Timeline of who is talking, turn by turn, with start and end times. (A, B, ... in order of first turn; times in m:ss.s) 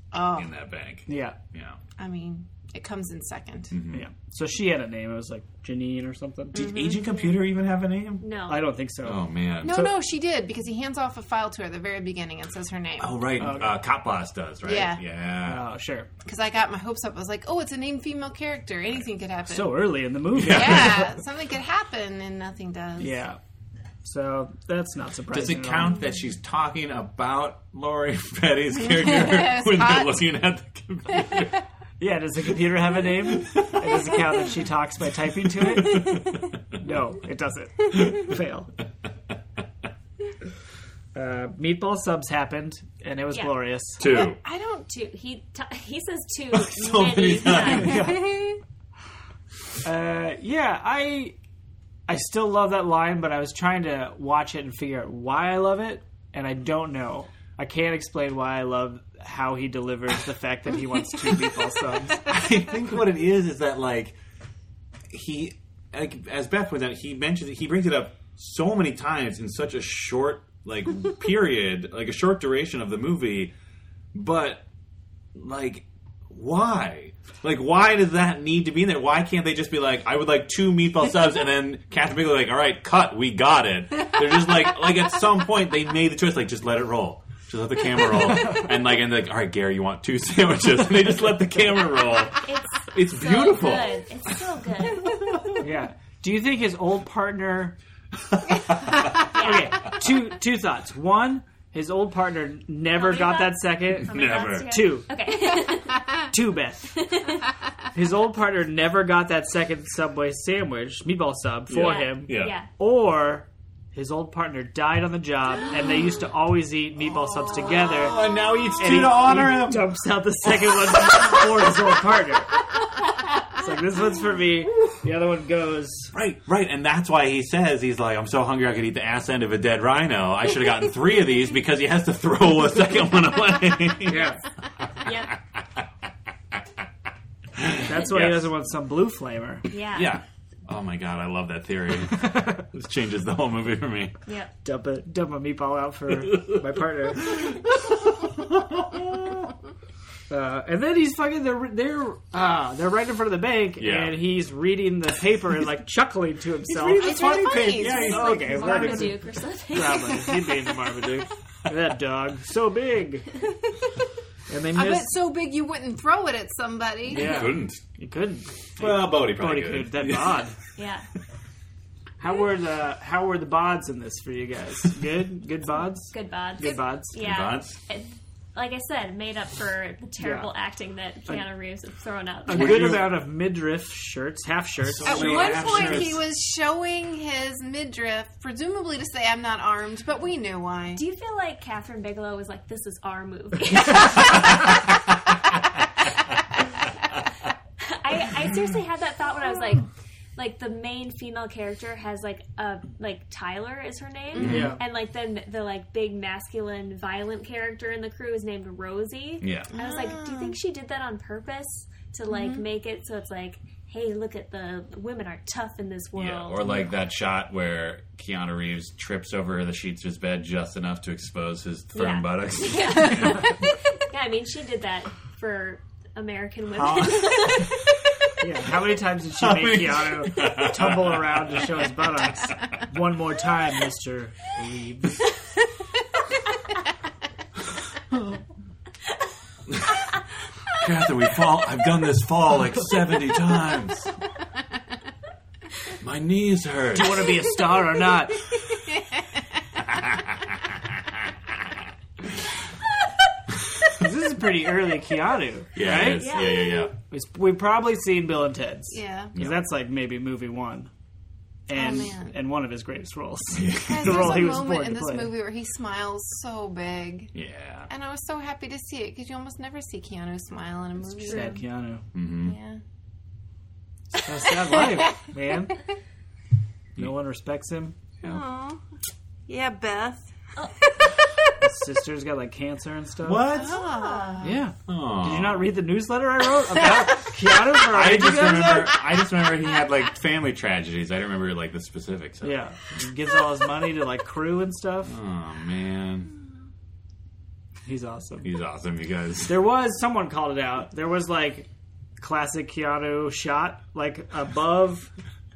0:00.1-0:00.5 A
0:00.3-0:01.8 B
0:01.1-0:01.4 C
0:02.0-0:03.8 A
0:03.7-0:04.0 B
0:03.9-0:06.6 C
0:06.5-0:07.1 A
0:06.5-0:08.2 B
0:08.2-0:08.6 D
0:08.5-0:09.9 C
0:09.0-0:09.8 B
0:09.6-0:13.3 A
0:13.0-0:15.6 B
0:13.4-0:13.8 C
0:14.6-0:15.0 A
0:15.4-0:16.1 C
0:16.2-0:23.2 A
0:19.5-0:21.1 C
0:20.3-0:21.1 B
0:23.0-0:23.4 C
0:24.0-0:26.0 C
0:25.3-0:31.5 B
0:28.8-0:30.2 A
0:32.0-0:36.2 C
0:33.5-0:33.8 B
0:36.0-0:36.3 B
0:36.8-0:38.7 C
0:41.1-0:44.0 C
0:43.3-0:43.6 D
0:44.0-0:44.4 B
0:44.0-0:44.8 A
0:44.8-0:48.1 D
0:46.5-0:48.1 B
0:47.7-0:48.3 C
0:48.0-0:48.6 A
0:49.8-0:51.3 C
0:52.1-1:02.3 C
1:02.2-1:04.2 B
1:05.1-1:13.5 B
1:14.1-1:14.6 B
1:15.3-1:34.0 B
1:32.4-1:35.2 D
1:35.6-1:37.8 C
1:39.3-1:39.9 D
1:39.3-1:44.1 C
1:42.9-1:46.1 D
1:44.1-1:44.7 B
1:44.7-1:45.1 C
1:46.3-1:47.0 C
1:47.0-1:47.4 D
1:47.9-2:02.5 C
1:51.7-1:52.6 B
1:51.7-1:52.7 D
1:57.7-1:59.9 B
2:03.6-2:06.1 C
2:06.1-2:14.4 B
2:14.1-2:14.4 C
2:15.0-2:15.3 D
2:17.5-2:18.5 B
2:17.8-2:19.6 C
2:19.7-2:20.2 D
2:19.9-2:24.2 B
2:22.3-2:22.6 C
2:24.2-2:24.5 D
2:24.6-2:27.5 C
2:27.3-2:29.4 B
2:30.3-2:43.3 C
2:33.8-2:34.2 B
2:36.8-2:38.1 B
2:36.9-2:39.1 A
2:37.7-2:40.3 D
2:44.5-2:45.1 C
2:44.7-2:47.4 A
2:47.1-2:50.6 C
2:47.1-2:47.8 B
2:48.8-2:50.5 B
2:50.8-2:51.1 D
2:52.2-2:57.1 C
2:56.1-3:02.8 D
2:57.2-2:57.8 B
3:00.2-3:00.5 C
3:02.5-3:06.1 C
3:02.5-3:03.1 B
3:04.8-3:06.2 B
3:05.0-3:11.0 A
3:10.9-3:14.4 D
3:17.8-3:36.6 D
3:24.3-3:24.6 A
3:24.4-3:24.8 B
3:24.4-3:24.8 C
3:29.4-3:29.7 B
3:29.7-3:30.6 A
3:32.3-3:32.6 A
3:36.1-3:43.6 B
3:41.9-3:47.8 D
3:46.8-3:47.3 B
3:48.4-3:55.2 C
3:49.4-3:51.6 B
3:59.7-4:00.0 B
4:00.7-4:04.1 B
4:06.0-4:07.3 B
4:06.9-4:08.4 C
4:09.9-4:10.7 B
4:14.0-4:16.3 C
4:15.7-4:16.9 B
4:16.0-4:16.9 D
4:17.1-4:20.9 C
4:18.9-4:19.3 A
4:19.3-4:19.6 B
4:21.7-4:25.3 C
4:21.7-4:22.3 A
4:23.5-4:24.4 B
4:23.8-4:27.3 A
4:27.3-4:27.9 B
4:27.9-4:31.6 A
4:31.2-4:31.5 D
4:31.2-4:32.0 C
4:32.1-4:32.5 B
4:32.3-4:32.8 A
4:34.2-4:35.8 C
4:37.0-4:38.3 C
4:38.2-4:38.8 A
4:39.5-4:40.3 A
4:40.8-4:41.2 A
4:41.6-4:43.5 C
4:43.2-4:43.8 B
4:43.5-4:44.6 A
4:43.5-4:44.5 D
4:44.4-4:48.9 C
4:44.9-4:45.7 B
4:47.8-4:52.6 B
4:52.4-4:55.2 C
4:55.0-4:56.3 B
4:57.8-4:58.5 C
4:58.4-4:59.6 B
4:59.4-5:05.1 C